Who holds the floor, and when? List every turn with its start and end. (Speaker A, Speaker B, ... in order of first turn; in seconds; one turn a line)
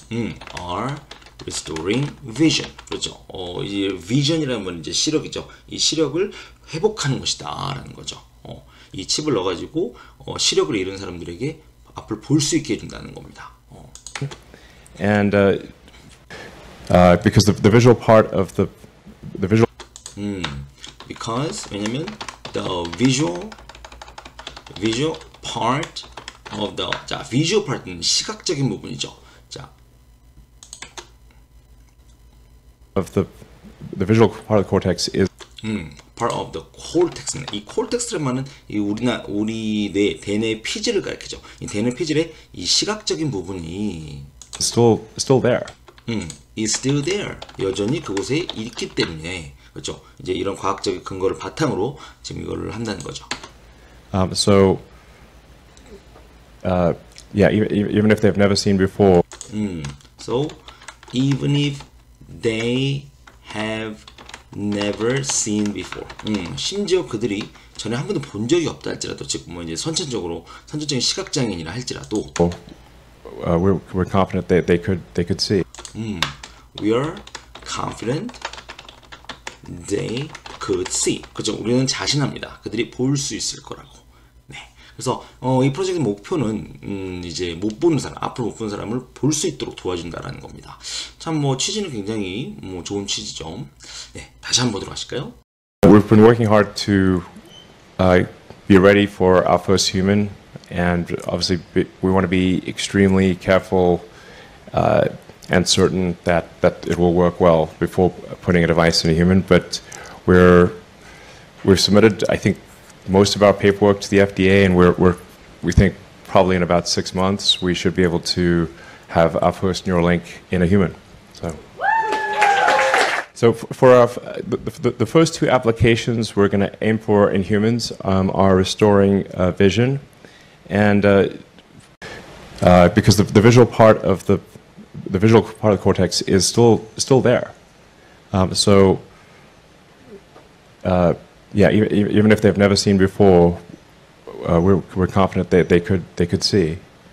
Speaker A: 0.1-13.9
Speaker B: 14.9-15.7
Speaker B: 16.9-19.6
Speaker A: 20.1-23.6
Speaker A: 24.7-29.7
Speaker B: 32.9-35.3
Speaker A: 35.6-44.3
Speaker B: 44.6-45.7
Speaker A: 46.1-53.3
Speaker B: 54.1-54.8
Speaker B: 56.6-59.2
Speaker A: 59.5-60.6
Speaker A: 61.1-72.4
Speaker B: 73.2-75.6
Speaker A: 75.9-78.4
Speaker A: 79.6-95.3
Speaker B: 95.8-97.3
Speaker B: 98.0-104.1
Speaker B: 104.7-110.8
Speaker B: 111.6-121.6
Speaker B: 123.3-130.0
Speaker B: 130.7-131.4
Speaker B: 132.6-137.6
Speaker B: 138.3-139.1
Speaker B: 140.8-143.6
Speaker B: 144.3-146.8